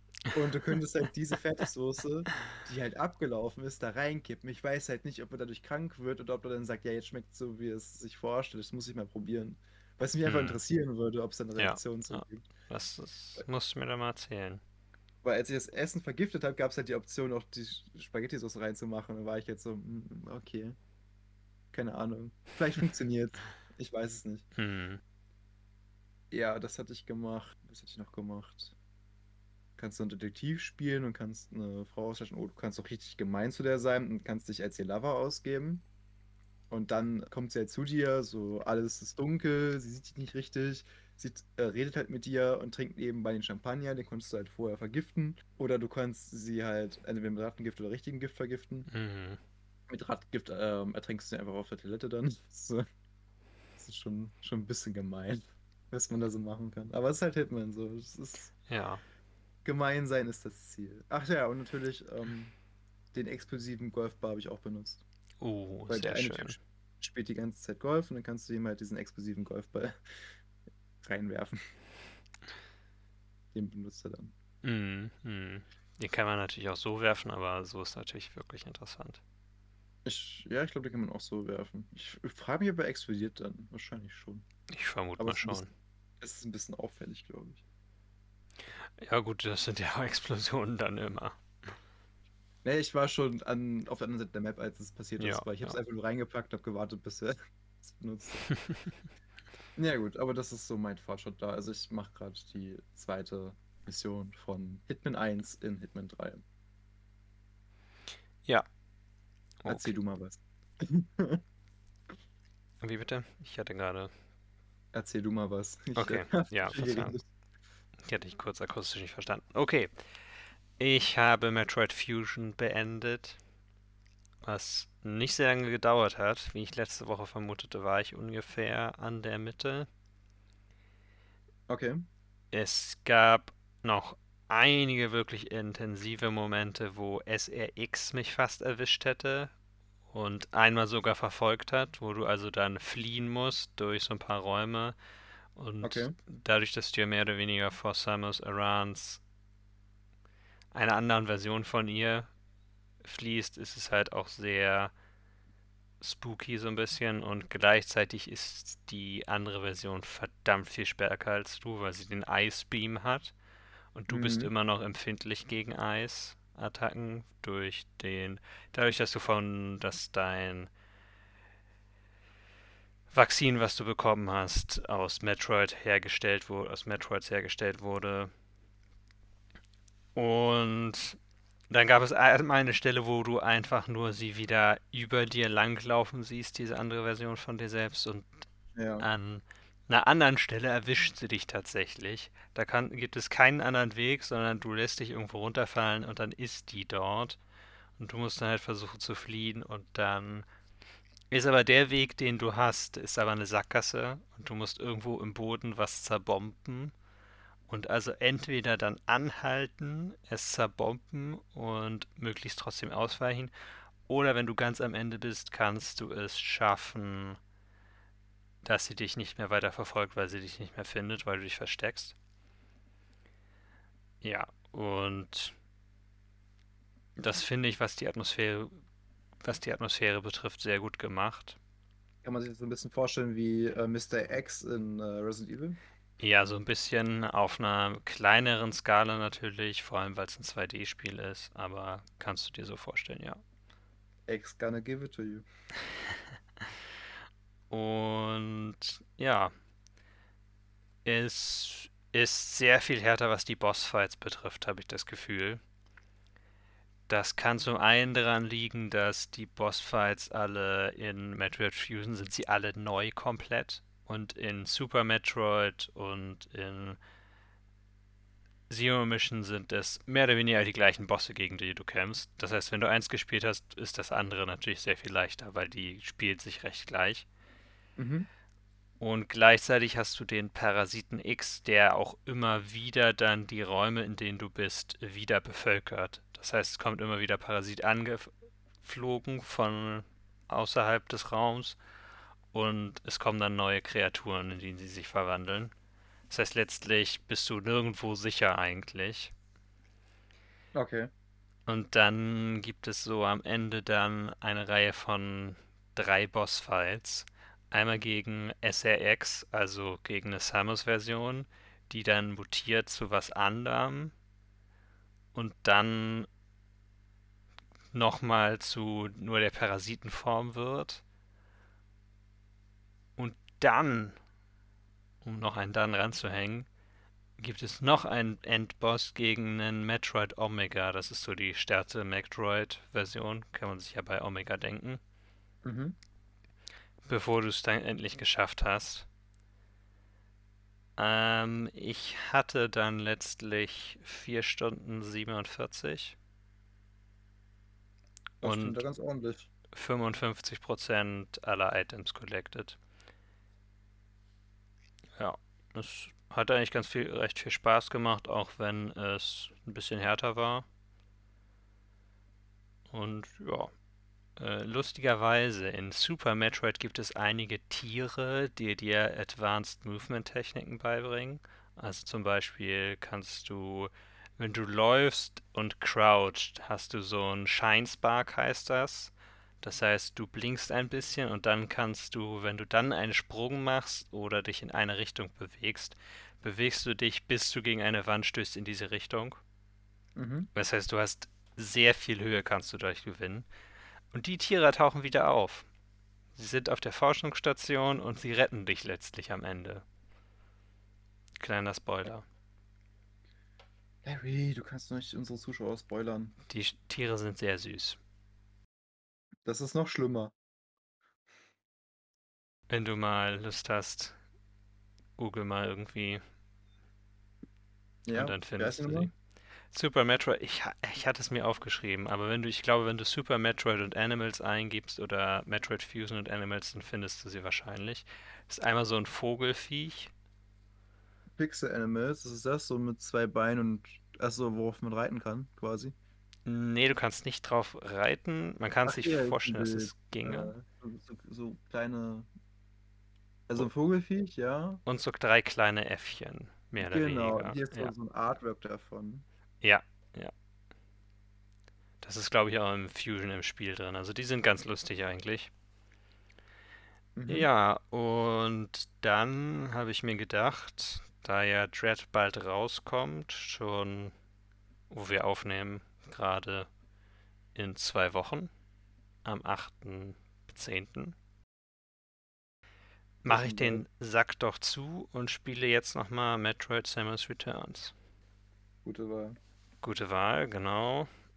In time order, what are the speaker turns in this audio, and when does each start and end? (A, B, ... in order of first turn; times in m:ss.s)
0:00.3-0:12.5 A
0:10.2-0:10.6 B
0:11.6-0:14.6 B
0:15.2-0:20.8 A
0:21.7-0:24.5 A
0:24.6-0:25.0 B
0:26.3-0:28.8 A
0:29.8-0:35.8 A
0:36.7-0:48.9 A
0:48.9-0:49.4 B
0:49.9-0:52.8 A
0:53.8-0:58.5 A
0:58.7-0:59.0 B
0:59.6-1:02.5 A
1:03.1-1:05.0 A
1:05.4-1:06.6 B
1:05.9-1:10.3 A
1:11.0-1:11.6 A
1:13.5-1:14.3 A
1:14.6-1:19.2 B
1:20.0-1:24.4 A
1:24.7-1:25.7 B
1:25.2-1:25.6 A
1:26.2-1:27.6 A
1:29.0-1:31.7 B
1:32.6-1:38.4 A
1:35.2-1:35.8 B
1:39.8-1:46.4 A
1:49.6-1:49.9 B
1:49.7-1:51.4 A
1:52.8-1:54.1 B
1:54.9-1:57.2 A
1:56.0-1:57.2 B
1:58.0-2:00.0 B
2:00.8-2:03.4 B
2:04.4-2:09.9 B
2:11.7-2:12.0 A
2:12.5-2:19.5 B
2:20.1-2:25.0 B
2:25.6-2:29.2 B
2:25.8-2:26.1 A
2:30.7-2:32.3 B
2:33.0-2:34.9 B
2:36.0-2:43.3 B
2:43.9-2:50.7 B
2:44.1-2:44.5 A
2:53.1-2:58.3 B
3:00.2-3:01.2 B
3:01.7-3:08.4 B
3:08.8-3:09.0 A
3:09.0-3:17.4 B
3:18.0-3:20.4 B
3:21.3-3:26.9 B
3:27.7-3:33.5 B
3:34.1-3:37.4 B
3:38.6-3:42.2 B
3:44.2-3:45.6 B
3:47.2-3:48.8 B
3:49.4-3:51.6 B
3:52.2-3:55.8 A
3:56.2-4:03.4 B
4:04.3-4:05.4 A
4:07.7-4:09.5 B
4:11.0-4:15.6 B
4:17.1-4:27.0 B
4:28.7-4:37.3 B
4:38.0-4:38.3 A
4:39.0-4:48.3 B
4:48.8-4:51.8 B
4:52.5-4:55.7 B
4:56.3-4:59.3 B
5:00.7-5:01.1 A
5:01.7-5:14.1 B
5:15.3-5:16.3 B
5:17.9-5:21.0 B
5:23.2-5:24.2 B
5:25.2-5:26.7 B
5:27.4-5:35.0 B
5:35.6-5:36.0 A
5:37.0-5:39.1 B
5:41.0-5:46.2 B
5:48.4-5:48.8 B
5:48.4-5:49.5 A
5:49.7-5:52.8 B
5:55.2-6:00.6 B
6:02.9-6:03.7 B
6:04.4-6:29.4 B
6:30.2-6:30.5 A
6:30.5-6:33.5 B
6:34.1-6:35.7 B
6:36.3-6:39.8 B
6:41.4-6:42.2 B
6:44.0-6:46.3 A
6:46.5-6:48.0 B
6:49.4-6:50.3 A
6:52.7-6:54.2 B
6:55.2-6:56.2 B
6:58.0-6:59.1 A
6:58.1-6:59.1 B
6:59.7-7:10.1 B
7:11.4-7:15.9 A
7:16.4-7:20.5 B
7:18.8-7:22.3 A
7:23.5-7:24.8 A
7:24.8-7:27.9 B
7:26.8-7:29.2 A
7:29.6-7:30.3 B
7:32.0-7:35.5 B
7:37.1-7:37.5 A
7:37.3-7:44.1 B
7:44.9-7:46.7 B
7:47.5-7:48.5 B
7:49.2-7:51.1 B
7:53.2-7:53.8 A
7:53.2-7:57.9 B
7:58.8-7:59.4 A
7:59.8-8:01.1 B